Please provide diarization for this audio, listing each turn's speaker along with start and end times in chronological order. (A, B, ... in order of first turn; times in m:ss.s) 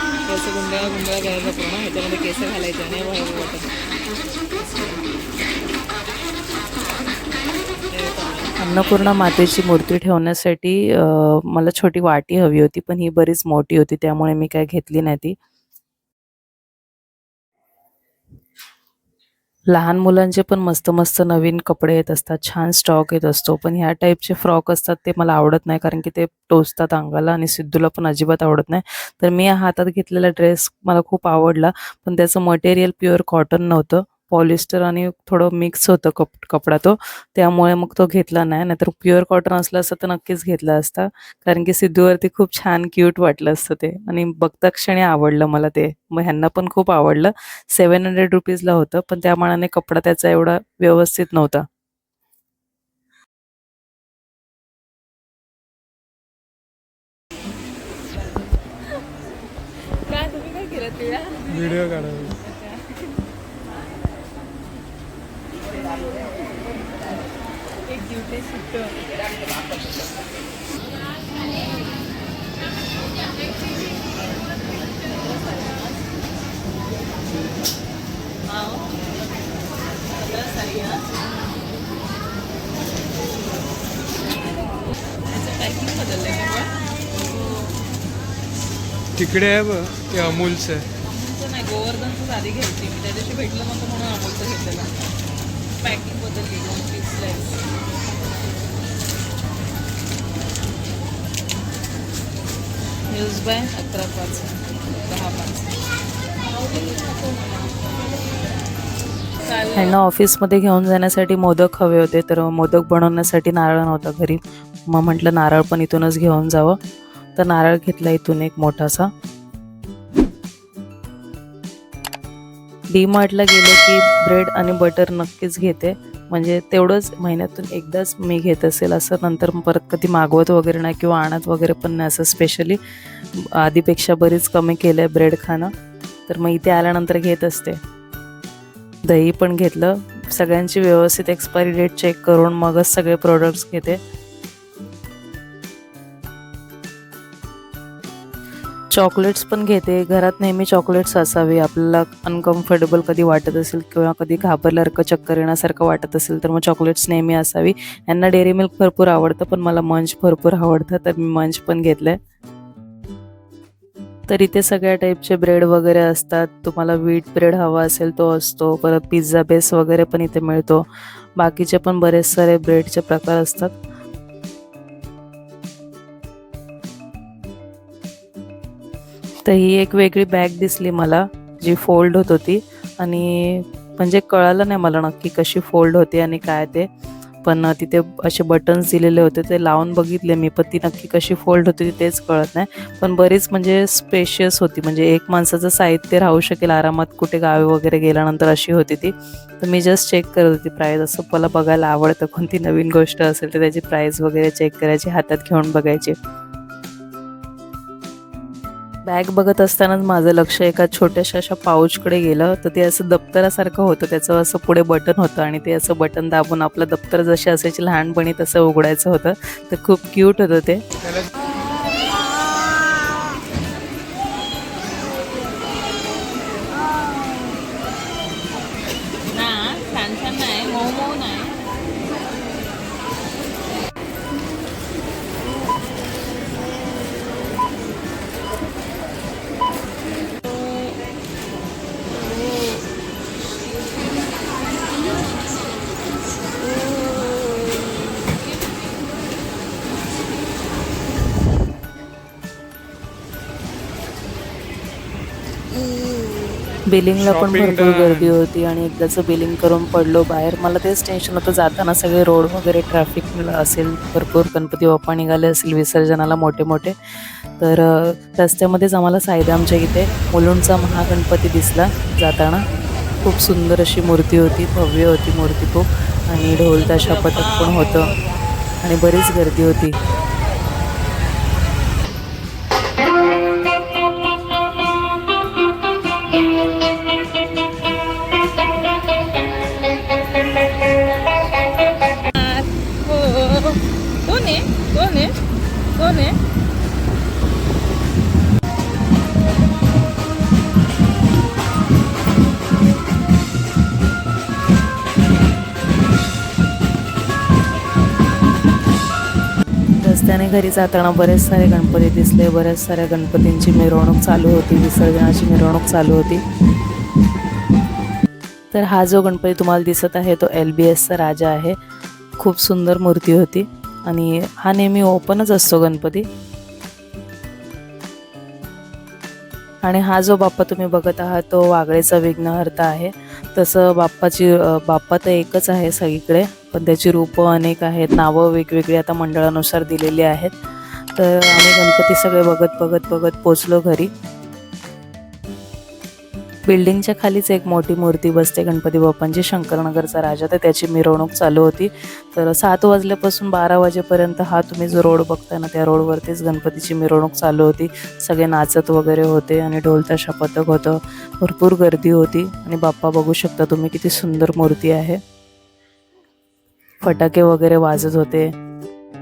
0:00.2-0:03.7 A
0:07.9-0:09.2 A
0:08.6-0:15.4 B
0:19.7-0:51.6 B
1:00.0-1:01.7 A
1:01.5-1:02.4 C
1:02.4-1:03.1 A
1:07.8-1:09.0 A
1:14.9-1:16.0 A
1:18.4-1:19.1 A
1:20.1-1:21.1 A
1:25.3-1:26.8 A
1:27.4-1:27.7 A
1:29.2-1:30.9 C
1:31.0-1:34.9 A
1:35.8-1:37.6 A
1:43.1-1:45.7 A
1:46.5-1:47.5 A
1:49.4-1:50.0 A
1:49.7-1:56.8 B
1:57.4-1:59.1 B
2:02.9-2:12.8 B
2:13.4-2:15.7 B
2:16.3-2:17.8 B
2:19.1-2:24.0 B
2:28.9-2:42.2 B
2:44.3-2:50.8 B
2:51.4-2:53.7 B
2:59.4-3:06.9 B
3:07.4-3:26.2 B
3:29.1-3:40.8 B
3:41.0-3:41.3 C
3:49.3-3:51.6 A
4:16.9-4:26.9 B
4:17.2-4:18.3 C
4:27.6-4:32.6 B
4:33.2-4:38.1 B
4:36.8-4:38.4 A
4:38.8-4:39.9 B
4:52.3-4:55.4 A
4:55.9-4:56.4 A
5:10.0-5:16.4 B
5:18.7-5:21.8 B
5:22.4-5:26.2 B
5:29.8-5:40.5 B
5:41.1-5:44.1 B
5:46.7-6:05.2 B
6:07.0-6:08.5 B